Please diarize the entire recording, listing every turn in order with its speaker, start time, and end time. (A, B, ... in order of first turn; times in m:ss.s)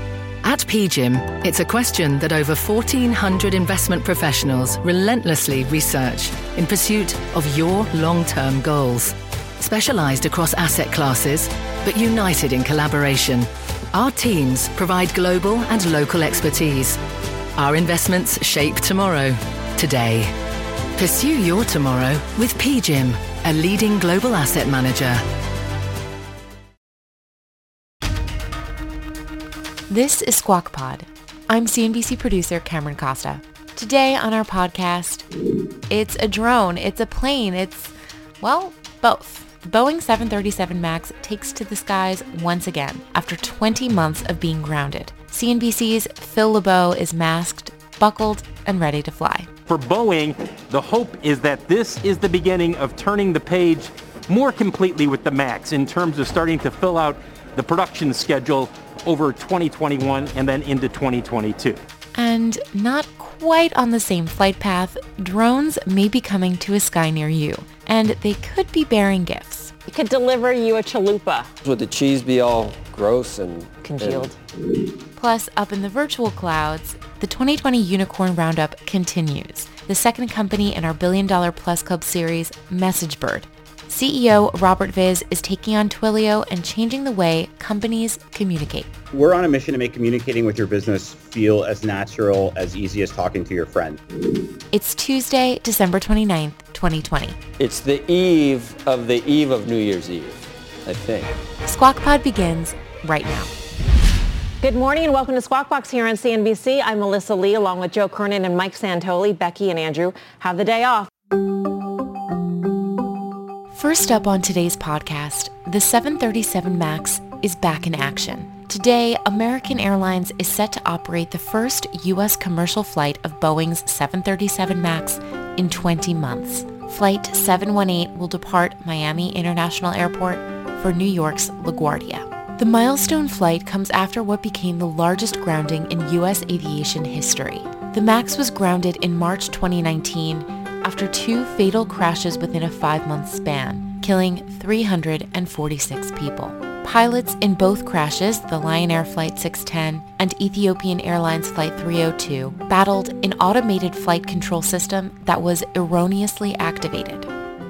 0:00.4-0:17.0 A
0:17.6-0:20.3 A
0:21.0-0:25.2 A
0:29.9-0:35.2 B
0:35.9-0:49.5 B
0:49.7-1:01.8 C
1:02.1-1:09.7 B
1:09.9-1:11.5 D
1:11.6-1:14.3 E
1:13.8-1:14.3 D
1:15.2-1:28.9 B
1:29.1-1:34.0 F
1:34.7-1:37.4 B
1:37.6-1:41.4 E
1:41.6-1:43.5 B
1:44.6-1:51.1 D
1:53.7-2:37.3 B